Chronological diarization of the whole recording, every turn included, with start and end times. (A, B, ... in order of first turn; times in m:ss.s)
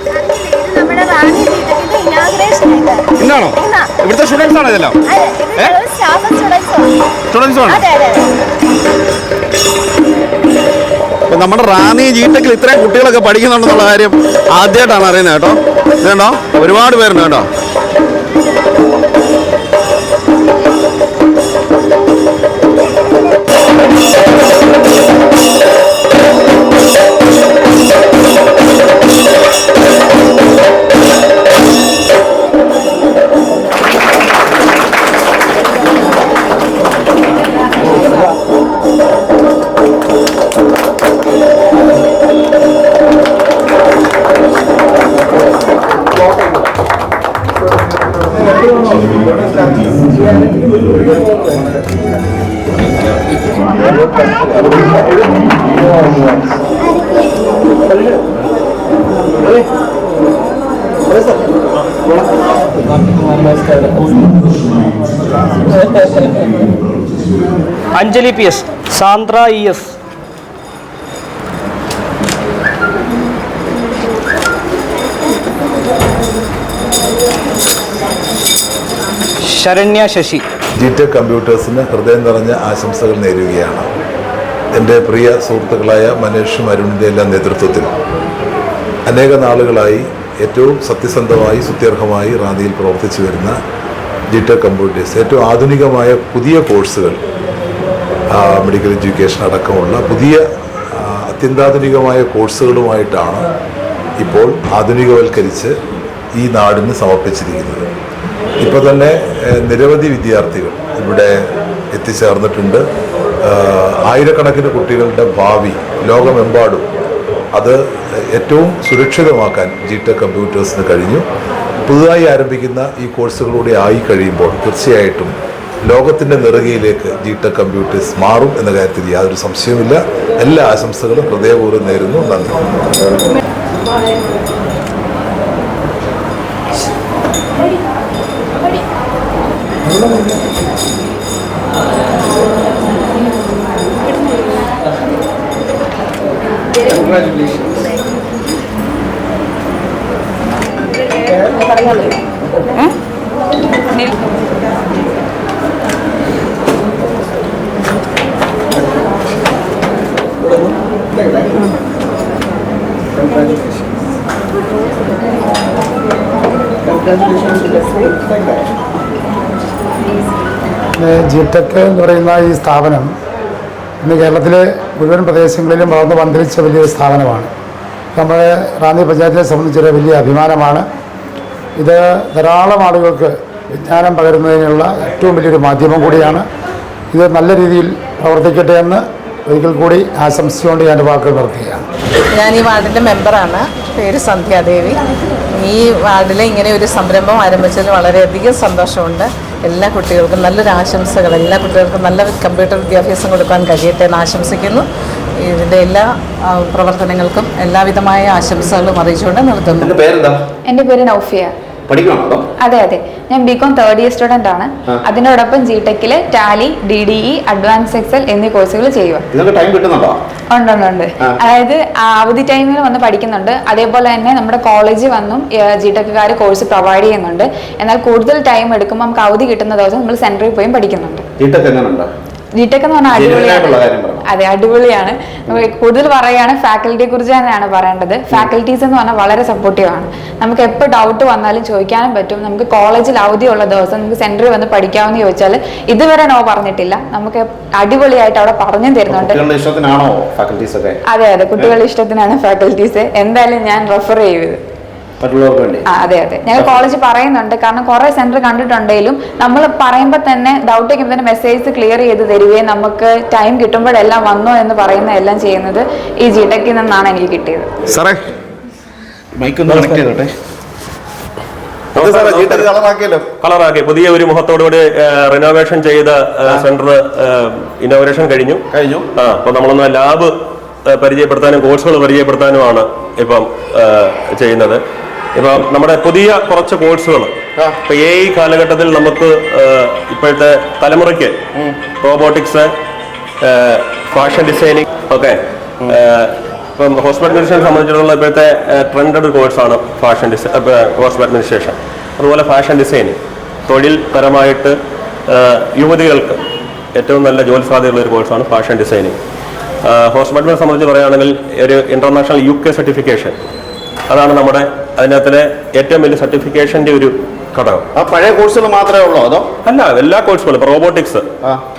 0:00.1-0:03.9 A
0:03.2-0:05.0 B
0:05.0-0:06.9 A
0:07.3-0:07.8 B
0:07.6-0:08.3 A
0:11.3-0:17.5 B
0:56.8-0:57.2 A
1:08.0-1:09.8 C
1:19.5-1:20.4 C
1:20.8-1:23.9 D
1:24.8-1:27.9 D
1:29.1-1:33.6 D
1:34.3-1:37.2 D
1:38.3-1:43.5 D
1:44.2-1:45.7 D
1:46.4-1:47.9 D
1:48.6-1:51.4 D
1:51.9-1:52.8 D
1:53.4-1:56.9 D
1:58.3-2:01.2 D
2:01.8-2:05.3 D
2:05.8-2:12.8 D
2:27.0-2:27.6 B
2:31.5-2:32.1 E
2:51.0-2:53.1 F
2:54.0-2:57.5 F
2:58.1-3:00.8 F
3:01.8-3:06.4 F
3:07.1-3:11.8 F
3:12.3-3:15.0 G
3:15.6-3:24.8 G
3:25.4-3:29.9 G
3:29.7-3:30.4 B
3:30.7-3:31.5 E
3:31.9-3:32.4 B
3:32.6-3:39.2 E
3:39.3-3:40.2 B
3:40.5-3:51.2 E
3:51.4-3:52.1 B
3:52.6-4:09.4 E
3:53.1-3:54.2 B
4:09.1-4:11.0 B
4:11.1-4:14.6 E
4:15.2-4:15.8 B
4:15.9-4:27.7 E
4:16.6-4:16.8 B
4:27.9-4:28.2 B
4:29.4-4:30.3 B
4:29.7-4:30.0 H
4:31.9-4:32.7 H
4:32.0-4:33.2 B
4:33.4-4:38.6 H
4:38.7-4:39.1 B
4:39.2-4:40.3 H
4:40.9-4:44.8 H
4:45.3-4:51.4 H
4:52.0-4:52.7 H
4:53.4-5:04.8 H
5:05.3-5:06.4 H
5:06.9-5:09.2 H
5:09.8-5:13.4 H
5:14.1-5:17.9 H
5:17.9-5:19.5 B
5:19.6-5:21.3 H